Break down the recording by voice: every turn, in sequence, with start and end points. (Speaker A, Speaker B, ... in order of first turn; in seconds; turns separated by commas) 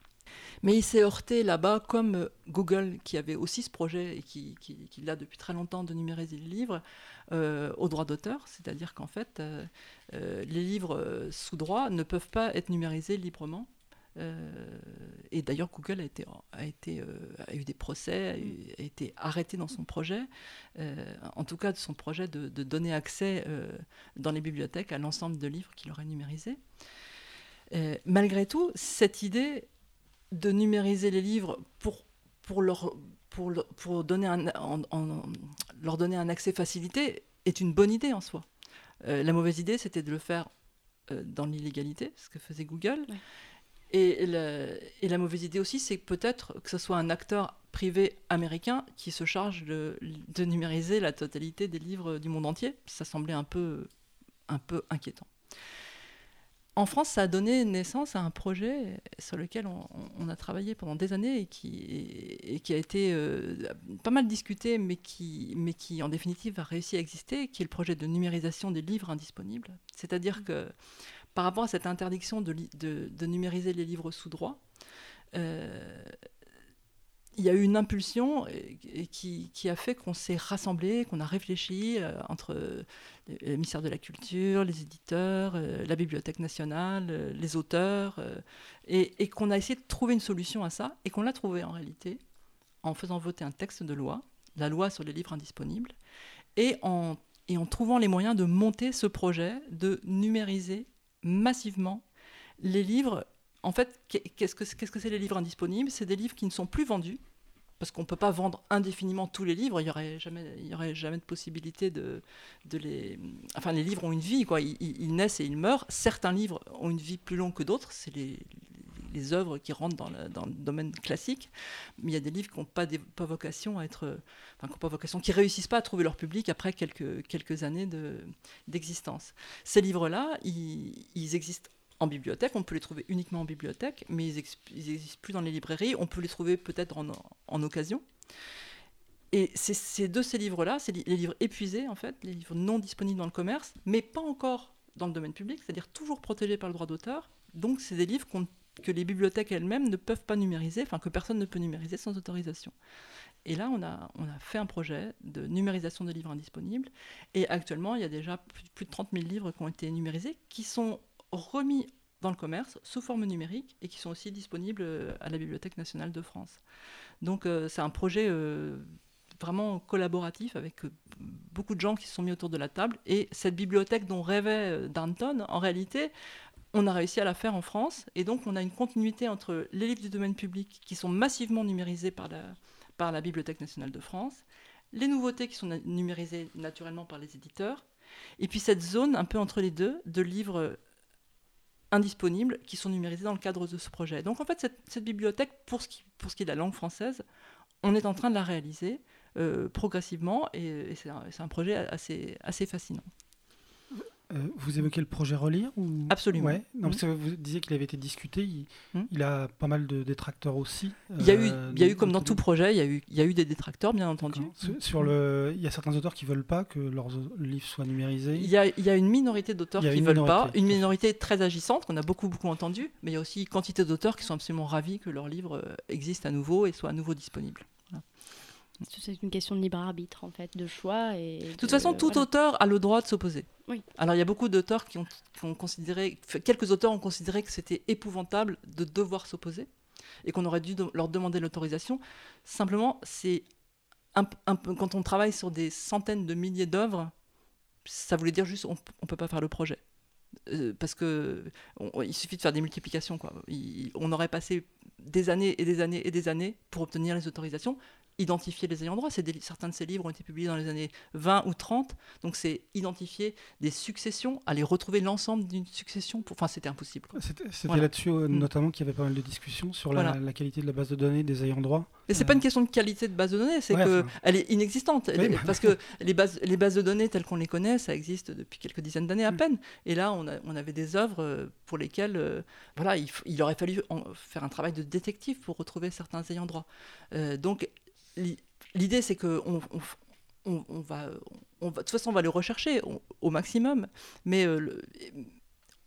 Speaker A: 0.6-26.6, Speaker A: 27.7-29.7, Speaker A: 30.3-38.5, Speaker A: 39.0-40.5, Speaker A: 41.1-43.1, Speaker A: 43.9-53.9, Speaker A: 54.5-55.3, Speaker A: 56.8-70.7, Speaker A: 71.3-74.6, Speaker A: 75.3-76.2, Speaker A: 77.4-92.2, Speaker A: 92.8-96.0, Speaker A: 96.6-102.0, Speaker A: 102.6-107.2, Speaker A: 107.8-138.0, Speaker A: 139.3-152.7, Speaker A: 153.4-166.6, Speaker A: 167.2-176.1, Speaker A: 176.7-187.8, Speaker A: 188.4-190.8, Speaker A: 191.9-197.2, Speaker A: 197.8-203.1, Speaker B: 203.9-212.4, Speaker A: 206.1-207.0, Speaker A: 211.2-214.8, Speaker B: 214.3-218.5, Speaker A: 218.4-228.0, Speaker B: 219.8-220.8, Speaker C: 228.9-232.3, Speaker A: 231.6-239.7, Speaker A: 240.2-243.4, Speaker A: 244.1-247.1, Speaker A: 247.9-249.8, Speaker A: 250.5-268.5, Speaker B: 267.1-272.4, Speaker A: 272.1-295.3, Speaker B: 273.7-274.1, Speaker B: 275.1-275.7